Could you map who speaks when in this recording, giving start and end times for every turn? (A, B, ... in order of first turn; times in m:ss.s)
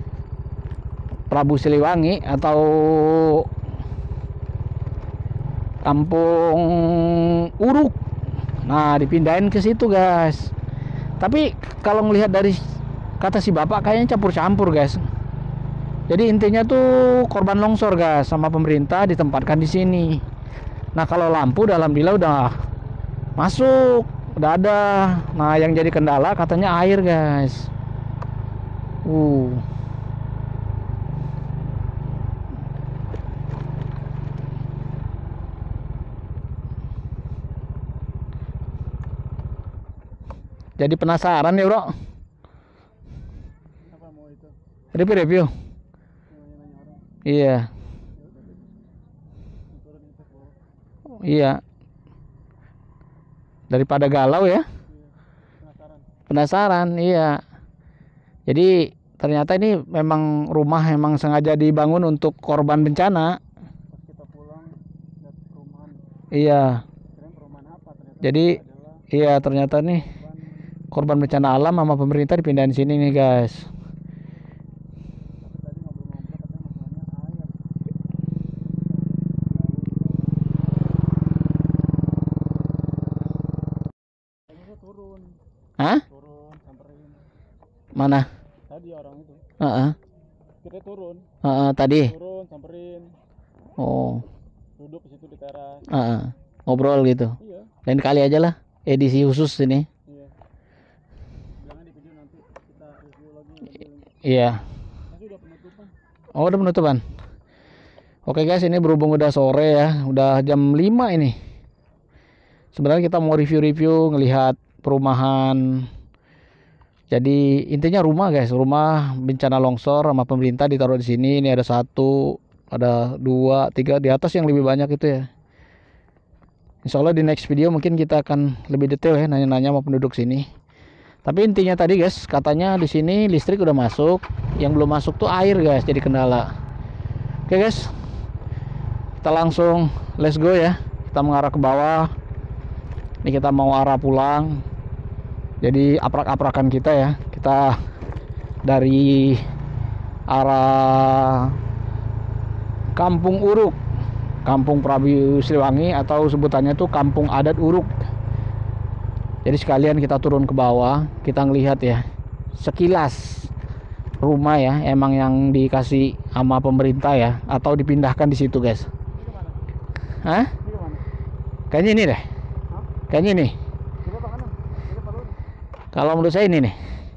0:01.3-0:03.5 A
0:05.8-0:07.9 A
0:08.6-0:10.5 A
0:11.2-0:15.0 A
0:16.1-0:20.2 A
0:20.9-0:22.5 A
0:23.4-0:27.7 A
0:29.0-0:29.6 A
0:40.8-0:41.9 A
0:43.9-0:44.5 B
0:44.9-0:45.5 A
0:46.3-0:47.0 B
0:47.2-0:47.7 A
0:48.2-0:48.8 B
0:49.7-0:50.6 B
0:51.2-0:51.6 A
0:53.7-0:54.6 A
0:55.6-0:56.0 B
0:56.3-0:57.4 A
0:58.5-1:03.4 A
1:03.9-1:04.7 B
1:05.2-1:06.0 B
1:06.3-1:06.8 A
1:07.1-1:09.1 B
1:08.2-1:08.6 A
1:09.1-1:10.1 A
1:09.9-1:10.6 B
1:10.9-1:13.7 A
1:15.4-1:17.6 B
1:18.9-1:20.3 B
1:24.5-1:25.4 B
1:25.8-1:26.0 A
1:26.1-1:27.2 B
1:27.9-1:28.3 A
1:28.7-1:29.4 B
1:29.6-1:30.0 A
1:30.6-1:31.3 B
1:31.4-1:32.1 A
1:32.1-1:33.2 B
1:33.8-1:34.2 A
1:34.8-1:35.9 B
1:35.9-1:39.9 A
1:37.4-1:37.7 B
1:40.1-1:40.3 B
1:41.6-1:44.0 B
1:44.2-1:44.6 A
1:45.1-1:45.9 B
1:46.3-1:47.0 A
1:48.2-1:51.4 A
1:52.7-1:55.9 A
1:57.1-2:05.3 A
2:06.8-2:10.4 A
2:11.2-2:16.5 A
2:17.5-2:17.9 A
2:19.2-2:22.1 A
2:23.2-2:24.6 A
2:25.6-2:27.8 A
2:28.6-2:29.4 A
2:30.3-2:31.5 A
2:33.0-2:33.8 A
2:34.4-2:37.9 A
2:39.4-2:42.0 A
2:42.6-2:43.5 A
2:44.2-2:48.9 A
2:49.2-2:49.6 B
2:50.2-2:50.5 A
2:50.6-2:51.0 B
2:51.7-2:52.2 A
2:53.1-2:53.5 A
2:54.0-2:55.4 B
2:55.9-2:56.8 A